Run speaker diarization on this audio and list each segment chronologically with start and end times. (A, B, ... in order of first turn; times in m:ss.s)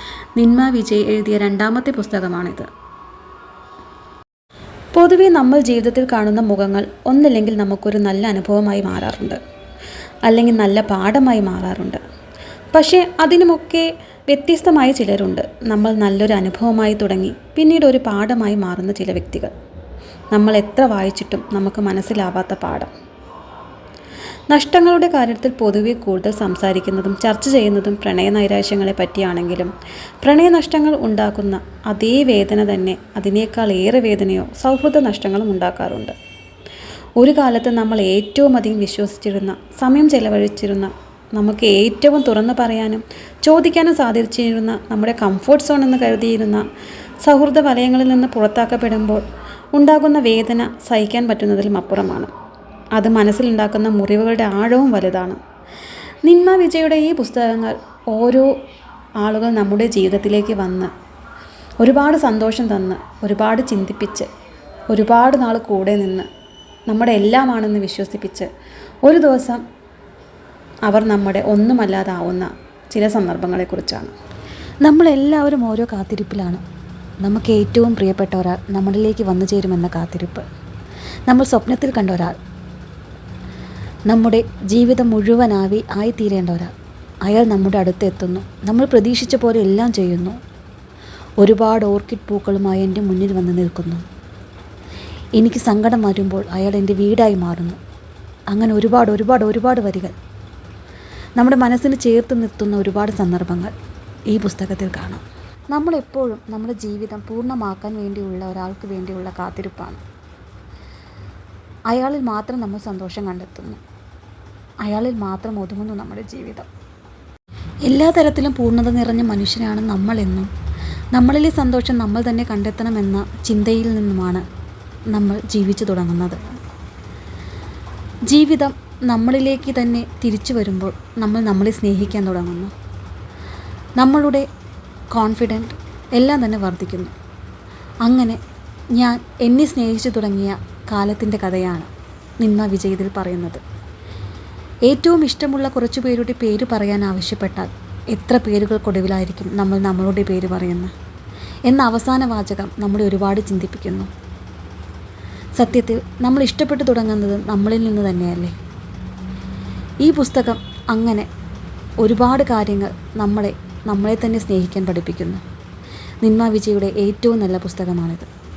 0:00.4-0:02.7 A
0:04.9-0:09.4 A
0:10.3-0:12.0 A
0:12.7-0:19.5 A
0:20.3-0:22.9 A
0:24.5-0:36.2 A
0:37.2-0:46.7 A
0:47.2-0:52.3 A
0:53.0-0:55.4 A
0:56.2-0:58.5 A
0:59.2-1:00.9 A
1:01.8-1:04.3 A
1:04.9-1:06.3 A
1:06.9-1:08.5 A
1:09.0-1:09.6 A
1:10.9-1:14.1 A
1:14.8-1:16.6 A
1:17.2-1:20.5 A
1:21.3-1:22.4 A
1:24.1-1:26.7 A
1:27.2-1:30.4 A
1:31.4-1:34.0 A
1:35.4-1:37.8 A
1:38.5-1:40.2 A
1:41.4-1:43.7 A
1:44.3-1:50.0 A
1:51.9-1:53.8 A
1:54.8-1:56.7 A
1:57.9-2:00.5 A
2:01.1-2:04.4 A
2:05.1-2:06.5 A
2:08.3-2:12.7 A
2:14.0-2:14.4 A
2:15.1-2:17.1 A
2:18.0-2:18.4 A
2:19.0-2:21.9 A
2:22.4-2:23.6 A
2:24.9-2:30.9 A
2:31.7-2:34.1 A
2:35.6-2:38.6 A
2:40.0-2:41.3 A
2:42.0-2:45.4 A
2:46.2-2:48.3 A